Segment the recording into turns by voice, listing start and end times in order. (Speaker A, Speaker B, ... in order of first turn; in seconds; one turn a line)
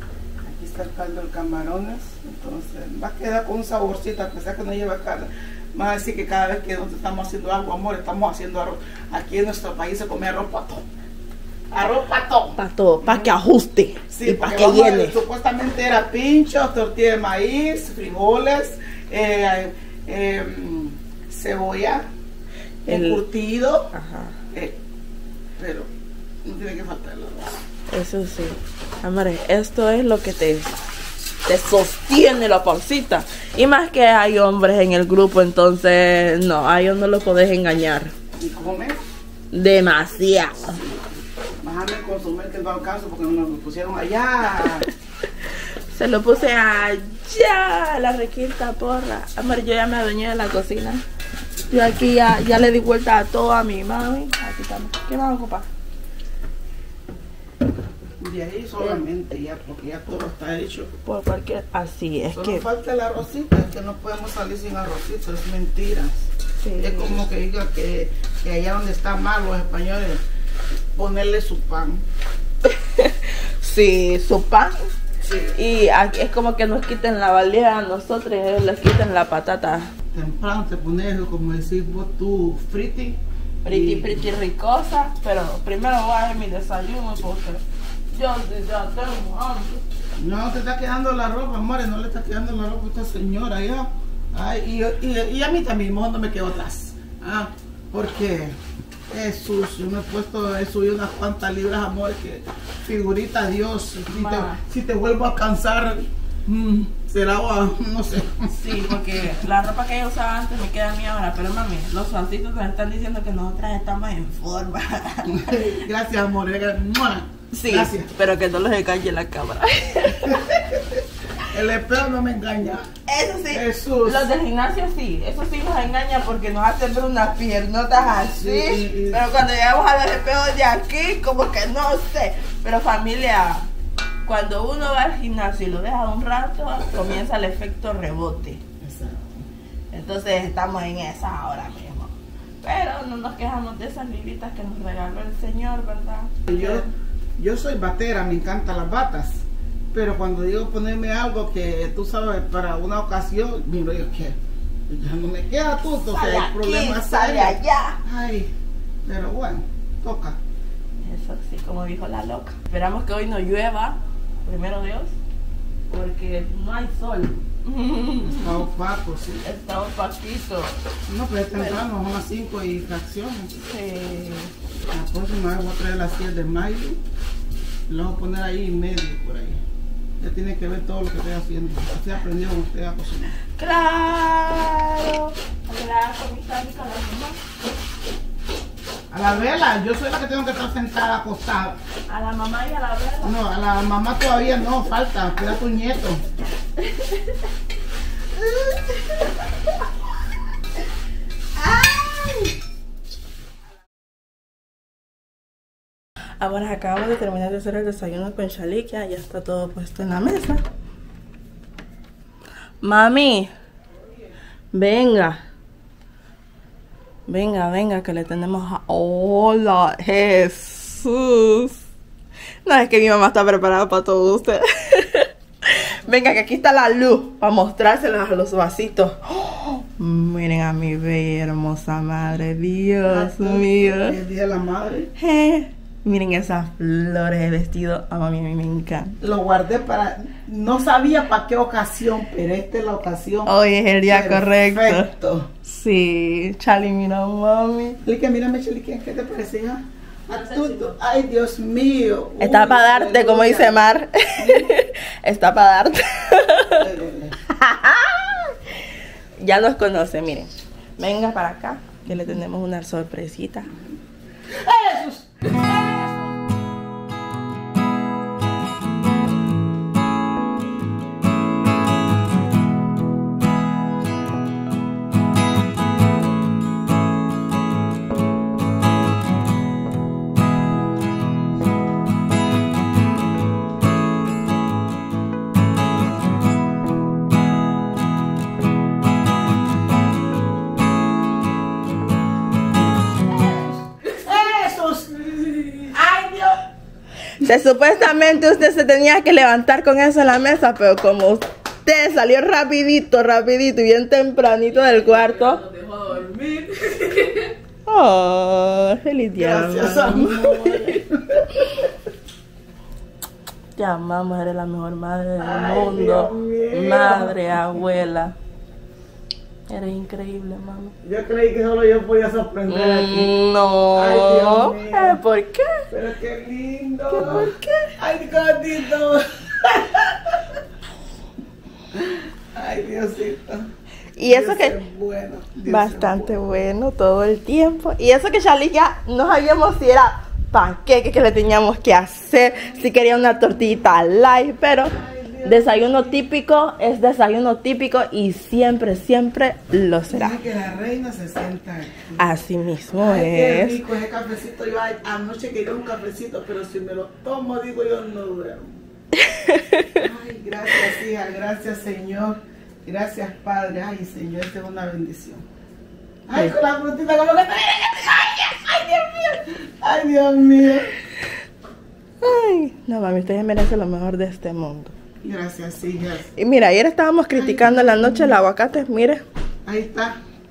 Speaker A: 0.4-10.8
Speaker A: 11.7-13.3
Speaker B: 12.6-15.2
Speaker A: 14.1-22.0
Speaker B: 22.9-23.2
Speaker A: 22.9-23.9
Speaker B: 23.9-24.4
Speaker A: 24.5-24.8
Speaker A: 25.6-25.9
Speaker A: 26.4-27.6
Speaker B: 27.9-30.7
Speaker B: 31.4-38.1
Speaker A: 38.4-39.0
Speaker B: 39.5-40.8
Speaker A: 40.7-44.9
Speaker B: 45.9-51.0
Speaker B: 51.7-55.7
Speaker A: 58.2-60.9
Speaker B: 61.0-62.6
Speaker A: 62.3-70.2
Speaker B: 66.6-67.2
Speaker A: 70.9-72.0
Speaker B: 72.7-74.9
Speaker A: 75.2-75.5
Speaker B: 75.5-79.9
Speaker A: 80.1-84.3
Speaker B: 83.6-87.6
Speaker B: 88.1-89.8
Speaker A: 90.2-98.6
Speaker A: 99.1-108.9
Speaker B: 104.0-104.6
Speaker B: 108.5-115.7
Speaker A: 115.2-118.1
Speaker B: 117.5-120.6
Speaker A: 120.2-122.9
Speaker B: 123.1-133.7
Speaker A: 123.5-124.3
Speaker A: 128.2-129.3
Speaker B: 134.2-138.6
Speaker A: 138.8-139.4
Speaker B: 139.9-146.9
Speaker A: 146.5-154.4
Speaker A: 154.9-158.5
Speaker B: 156.1-158.0
Speaker A: 159.0-160.4
Speaker B: 161.0-165.1
Speaker B: 165.9-168.6
Speaker A: 168.2-169.4
Speaker B: 169.4-170.7
Speaker A: 171.1-173.5
Speaker B: 173.6-174.5
Speaker A: 174.9-177.0
Speaker A: 177.9-179.6
Speaker A: 180.2-183.4
Speaker B: 183.6-187.4
Speaker A: 189.1-191.8
Speaker B: 192.1-193.4
Speaker A: 193.2-196.2
Speaker B: 196.8-197.3
Speaker B: 198.4-199.2
Speaker B: 201.6-202.5
Speaker B: 206.4-210.6
Speaker B: 212.8-213.5
Speaker B: 214.7-215.4
Speaker B: 217.3-221.8
Speaker B: 222.7-234.2
Speaker A: 233.0-235.1
Speaker B: 235.2-239.2
Speaker A: 239.2-243.5
Speaker B: 243.4-245.1
Speaker A: 244.1-245.5
Speaker B: 245.6-248.0
Speaker A: 248.0-254.8
Speaker B: 250.3-250.9
Speaker B: 252.4-256.9
Speaker A: 256.8-257.3
Speaker B: 257.4-258.6
Speaker B: 259.4-263.7
Speaker A: 264.5-266.3
Speaker A: 294.2-296.6
Speaker B: 297.4-305.6
Speaker C: 304.7-307.5
Speaker B: 307.9-311.0
Speaker A: 309.4-311.9
Speaker B: 313.8-318.3
Speaker A: 315.4-317.8
Speaker B: 319.7-320.9
Speaker A: 321.0-323.3
Speaker B: 322.7-325.9
Speaker A: 323.9-325.2
Speaker A: 325.9-330.4
Speaker B: 327.1-327.9
Speaker A: 331.9-333.7
Speaker B: 334.1-334.8
Speaker A: 334.2-336.4
Speaker B: 335.6-350.4
Speaker A: 344.8-346.2
Speaker A: 350.1-352.3
Speaker B: 352.2-353.8
Speaker A: 353.0-358.8
Speaker B: 359.1-360.0
Speaker A: 359.9-365.4
Speaker A: 366.3-370.9
Speaker B: 372.2-374.9
Speaker A: 375.2-376.3
Speaker B: 376.4-379.2
Speaker A: 377.3-378.4
Speaker A: 379.6-380.1